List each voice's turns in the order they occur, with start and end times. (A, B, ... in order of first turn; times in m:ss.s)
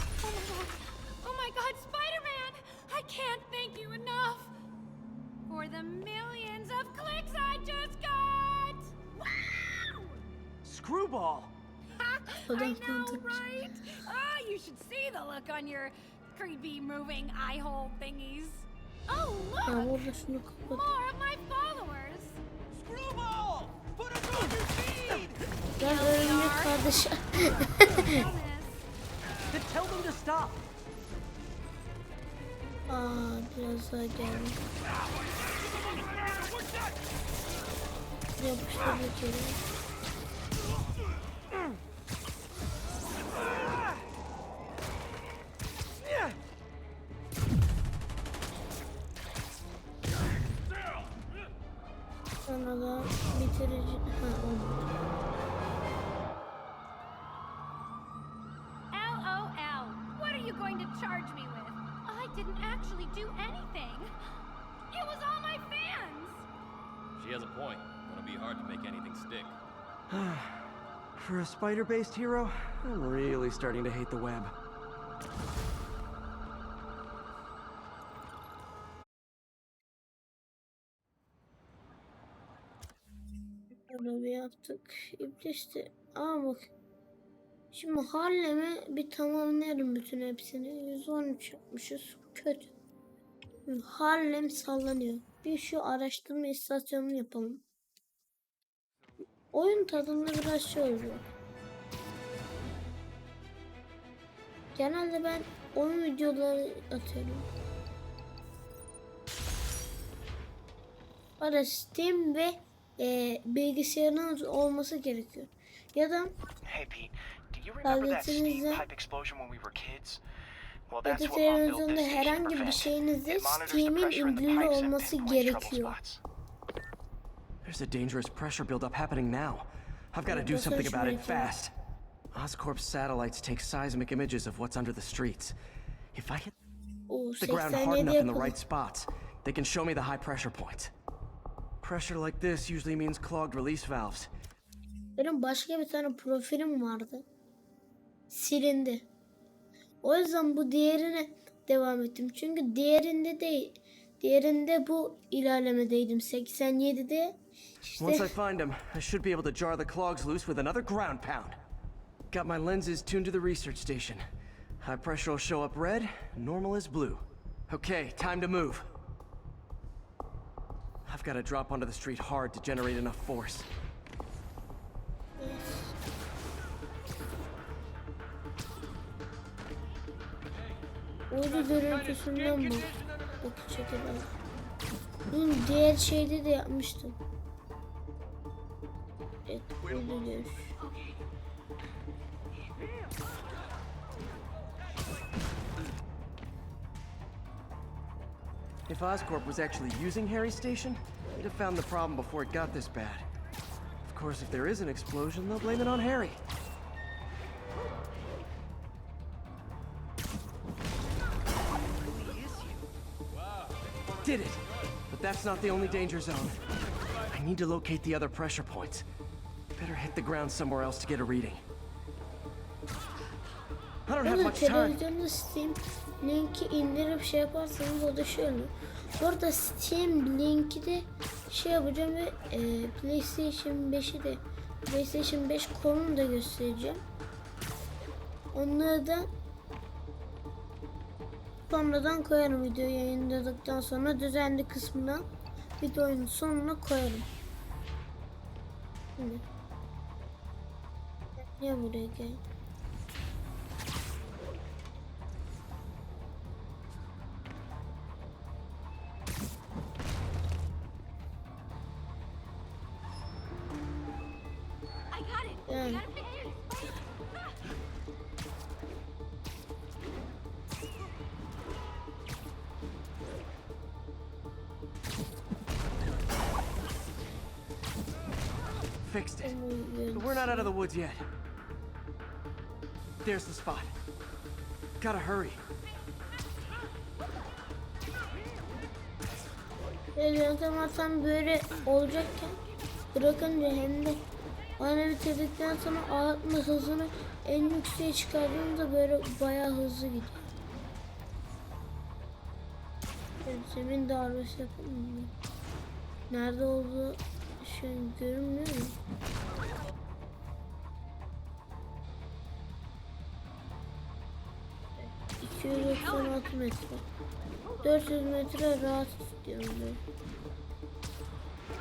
0:00.2-0:04.5 A
0:05.5-0:10.2 A
0:10.6-0:11.5 B
0:12.0-0:20.1 A
0:12.5-0:13.4 C
0:19.6-0:20.8 C
0:20.7-0:22.4 A
0:22.7-0:25.2 B
0:24.9-0:28.9 A
0:25.8-0:28.2 C
0:29.5-0:30.6 B
0:32.9-0:34.6 C
0:38.4-0:39.6 C
0:52.5-0:54.9 C
0:58.9-1:04.1 A
1:04.9-1:06.5 A
1:07.2-1:09.5 D
1:10.1-1:10.6 B
1:11.2-1:14.5 B
1:23.9-1:26.7 C
1:27.7-1:32.7 C
1:33.7-1:37.6 C
1:39.5-1:41.2 C
1:44.8-1:47.5 C
1:51.4-1:56.3 C
1:56.6-2:00.2 E
1:57.8-1:58.8 C
2:00.9-2:06.2 E
2:01.0-2:06.0 C
2:07.6-2:11.7 B
2:10.2-2:11.5 C
2:12.3-2:15.5 B
2:16.1-2:16.5 B
2:17.1-2:18.6 C
2:17.4-2:20.9 B
2:21.8-2:24.3 B
2:25.2-2:27.2 C
2:28.3-2:29.1 C
2:30.0-2:38.4 C
2:38.0-2:41.6 B
2:42.3-2:44.2 B
2:44.8-2:48.9 B
2:51.0-2:53.7 B
2:55.4-2:56.0 C
3:01.3-3:04.3 C
3:05.3-3:07.2 C
3:09.5-3:10.8 C
3:18.9-3:23.2 B
3:24.0-3:26.4 B
3:32.1-3:32.8 B
3:34.2-3:36.6 B
3:37.3-3:39.0 B
3:39.8-3:41.6 B
3:44.1-3:45.0 B
3:44.2-3:57.0 C
3:58.5-3:59.3 C
4:01.7-4:05.3 C
4:05.8-4:07.3 C
4:09.2-4:09.4 C
4:11.4-4:12.4 C
4:25.1-4:27.6 A
4:25.7-4:26.0 C
4:39.0-4:39.6 B
4:39.4-4:40.7 C
4:40.1-4:41.2 B
4:43.2-4:43.9 B
4:45.0-4:45.6 B
4:50.2-4:52.6 C
4:53.1-4:54.2 C
4:54.8-5:00.3 C
5:03.4-5:05.3 C
5:06.3-5:09.0 C
5:15.0-5:17.0 C
5:17.8-5:20.0 C